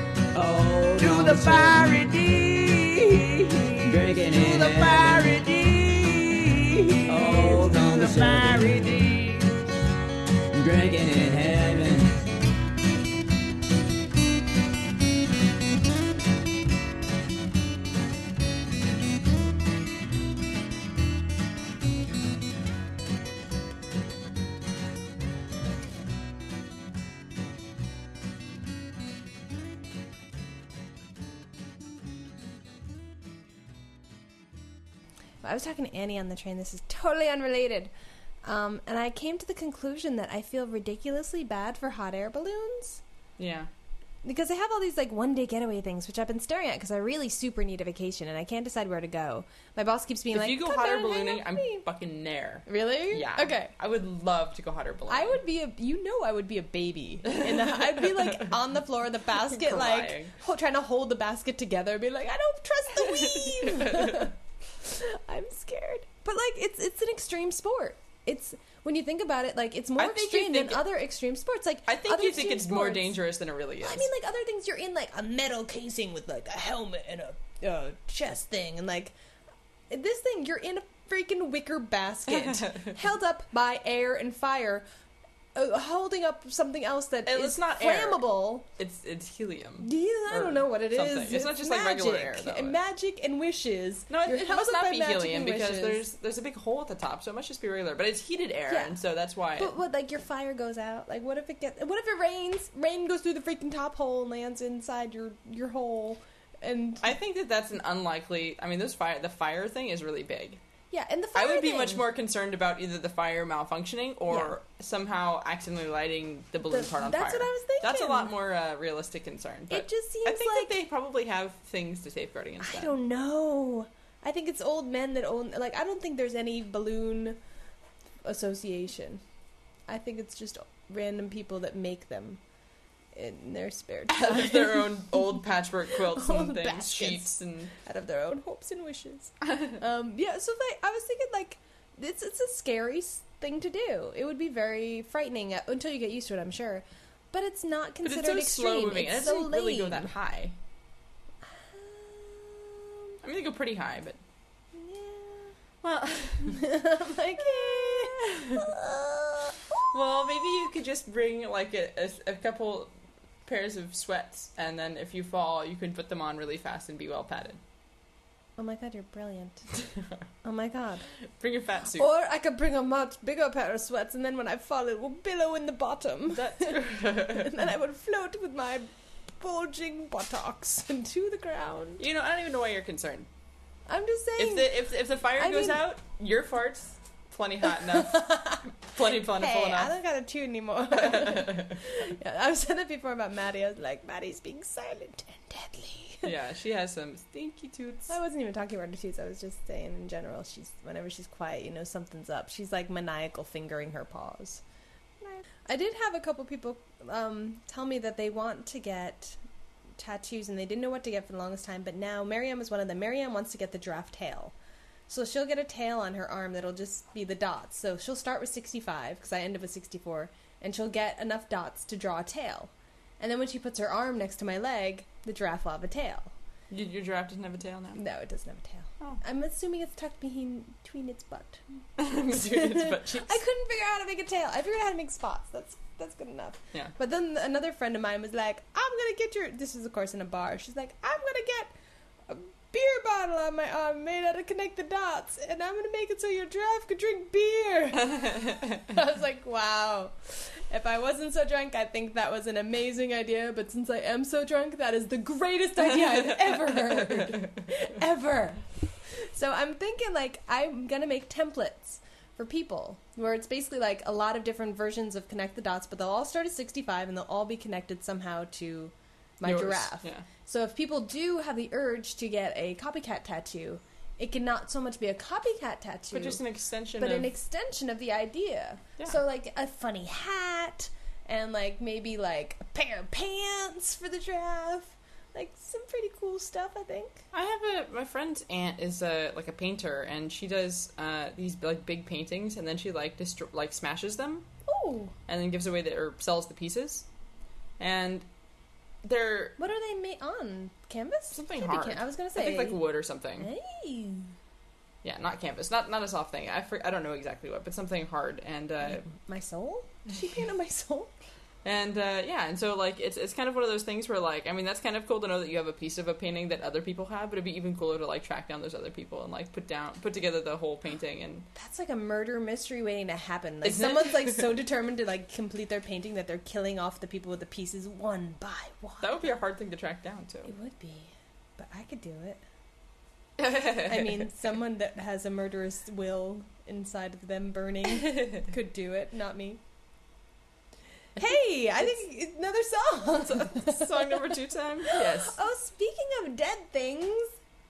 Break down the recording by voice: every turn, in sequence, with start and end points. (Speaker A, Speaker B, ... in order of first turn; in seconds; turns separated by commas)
Speaker A: 0.3-1.9, Speaker B: 1.0-9.6, Speaker A: 3.8-5.3, Speaker A: 7.1-8.9, Speaker A: 10.5-12.2, Speaker C: 35.4-37.9, Speaker C: 38.4-43.0, Speaker D: 43.4-43.7, Speaker C: 44.2-51.8, Speaker D: 50.3-55.4, Speaker C: 52.7-53.7, Speaker C: 55.1-73.2, Speaker D: 57.3-58.5, Speaker D: 59.5-60.3, Speaker D: 63.0-64.2, Speaker D: 70.0-70.8, Speaker D: 71.9-74.1, Speaker C: 73.8-79.1, Speaker C: 79.9-84.8, Speaker D: 82.4-82.9, Speaker C: 85.5-88.7, Speaker D: 87.2-88.2, Speaker D: 88.8-92.8, Speaker C: 89.8-96.0, Speaker D: 94.1-99.7, Speaker C: 98.7-99.0, Speaker C: 99.6-107.1, Speaker D: 107.0-110.6, Speaker C: 110.9-112.0, Speaker D: 111.3-122.9, Speaker C: 114.3-114.5, Speaker C: 116.7-118.3, Speaker C: 119.7-120.7, Speaker C: 122.6-127.4, Speaker C: 128.2-129.2, Speaker C: 129.9-132.4, Speaker C: 133.1-135.3, Speaker D: 134.1-137.7, Speaker C: 136.1-150.1, Speaker D: 148.0-150.5, Speaker C: 151.4-153.1, Speaker D: 153.2-154.2, Speaker C: 154.7-155.6, Speaker D: 155.8-156.6, Speaker C: 156.4-160.6, Speaker D: 157.4-158.7, Speaker D: 159.9-162.9, Speaker D: 163.4-167.6, Speaker C: 168.6-169.6, Speaker C: 170.4-171.1, Speaker D: 171.4-172.1, Speaker C: 171.9-182.0, Speaker D: 176.3-177.5, Speaker D: 182.0-183.3, Speaker C: 183.9-184.7, Speaker D: 184.4-189.9, Speaker C: 185.4-185.8, Speaker C: 187.7-196.3, Speaker D: 190.9-191.8, Speaker D: 196.2-198.1, Speaker C: 198.1-204.6, Speaker C: 205.2-209.4, Speaker C: 210.0-214.5, Speaker C: 215.1-226.3, Speaker D: 226.7-228.0, Speaker C: 227.9-231.6, Speaker D: 232.0-233.4, Speaker C: 232.3-241.7, Speaker C: 242.3-276.4, Speaker D: 248.1-248.8, Speaker D: 269.4-270.2, Speaker D: 276.1-277.3, Speaker C: 277.0-287.2, Speaker D: 287.3-294.5, Speaker C: 294.7-295.1, Speaker D: 295.3-297.1, Speaker D: 297.8-298.2, Speaker D: 299.0-299.6, Speaker C: 299.6-302.8, Speaker D: 301.3-303.5, Speaker C: 303.4-304.3, Speaker D: 305.0-309.0, Speaker C: 308.8-311.1, Speaker D: 311.6-321.5, Speaker C: 321.5-329.2, Speaker D: 323.6-324.4, Speaker D: 329.0-330.5, Speaker C: 330.4-332.4, Speaker D: 333.4-334.2, Speaker C: 333.7-339.6, Speaker D: 338.1-338.4, Speaker C: 341.2-344.1, Speaker D: 343.2-345.4, Speaker C: 344.9-347.4